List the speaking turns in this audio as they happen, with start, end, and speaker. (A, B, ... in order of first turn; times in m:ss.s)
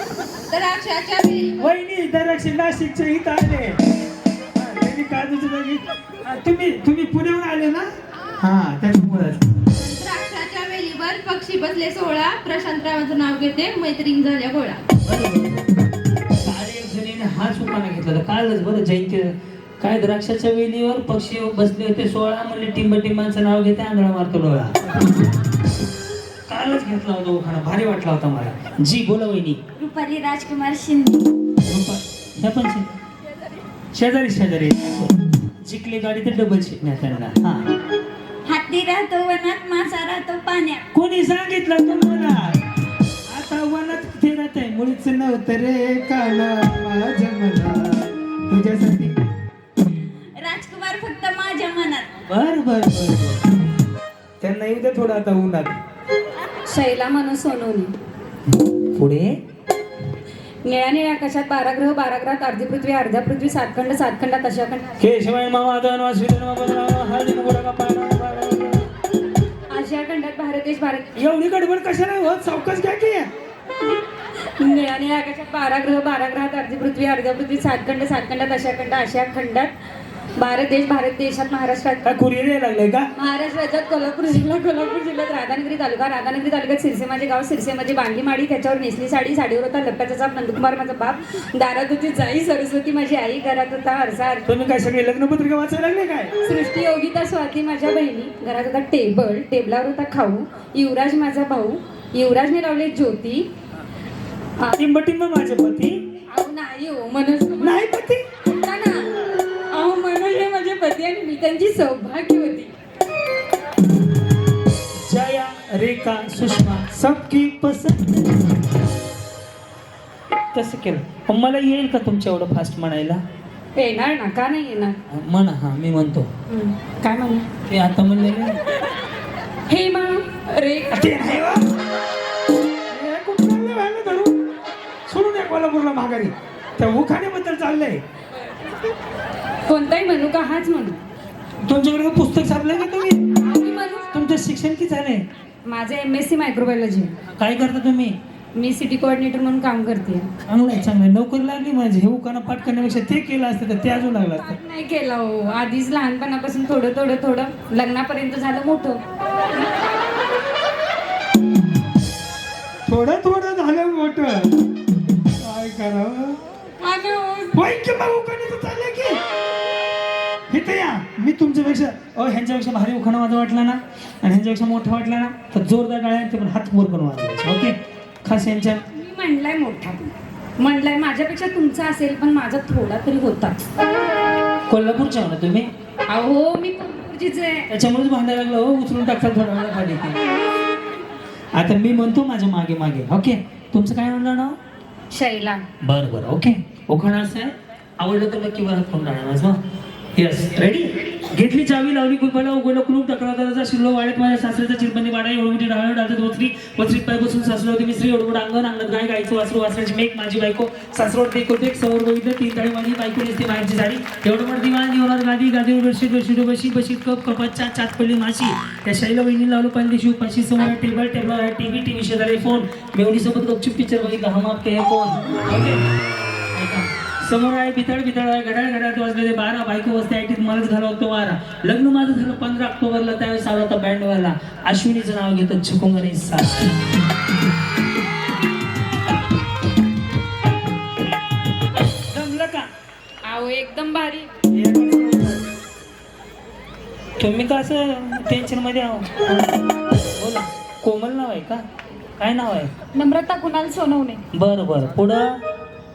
0:00.5-0:01.5 A
0:01.6-0:03.8 B
0:04.5-0:09.6 B
0:09.8-0:14.8 A
0:15.0-0:15.7 B
0:16.4-0:25.3 B
0:26.5-0:29.6 B
0:29.8-0:31.3 A
0:31.6-0:32.9 B
0:33.9-0:37.7 B
0:38.4-0:40.8 A
0:40.9-0:42.6 B
0:43.3-0:49.2 B
0:50.4-0:52.1 A
0:52.3-0:53.4 B
0:54.4-0:55.8 B
0:56.7-0:57.9 C
0:58.8-0:59.4 B
1:00.6-1:04.9 C
1:05.0-1:08.9 B
1:09.7-1:11.1 C
1:11.2-1:13.3 B
1:14.6-1:19.7 C
1:20.4-1:22.0 C
1:22.0-1:23.1 B
1:23.2-1:34.4 C
1:34.4-1:36.3 B
1:36.4-1:43.5 C
1:44.7-1:46.0 B
1:46.3-1:47.8 C
1:47.6-1:48.2 B
1:48.6-1:49.0 C
1:49.7-1:52.7 C
1:55.0-1:58.6 B
2:00.5-2:03.2 B
2:03.8-2:05.0 C
2:05.1-2:06.3 B
2:06.5-2:07.5 C
2:07.7-2:08.6 B
2:09.7-2:11.1 C
2:10.9-2:11.6 B
2:12.9-2:14.4 B
2:15.1-2:18.0 B
2:19.6-2:21.0 C
2:21.6-2:23.3 B
2:23.4-2:24.1 C
2:24.1-2:25.2 B
2:25.6-2:27.1 C
2:27.4-2:28.2 B
2:28.5-2:30.3 C
2:30.5-2:34.6 B
2:34.6-2:39.0 C
2:42.9-2:44.5 B
2:45.2-2:46.4 B
2:46.8-2:47.5 C
2:47.5-2:49.2 B
2:50.5-2:58.8 B
2:58.9-3:03.6 C
3:04.7-3:05.7 B
3:06.1-3:07.7 C
3:07.7-3:10.2 B
3:11.5-3:14.6 B
3:15.1-3:15.6 C
3:15.8-3:19.6 B
3:20.1-3:45.8 B
3:46.5-3:56.8 B
4:02.1-4:02.7 B
4:03.2-4:04.3 C
4:04.5-4:05.4 B
4:07.2-4:11.6 B
4:12.2-4:12.7 B
4:12.9-4:14.2 C
4:14.3-4:15.4 B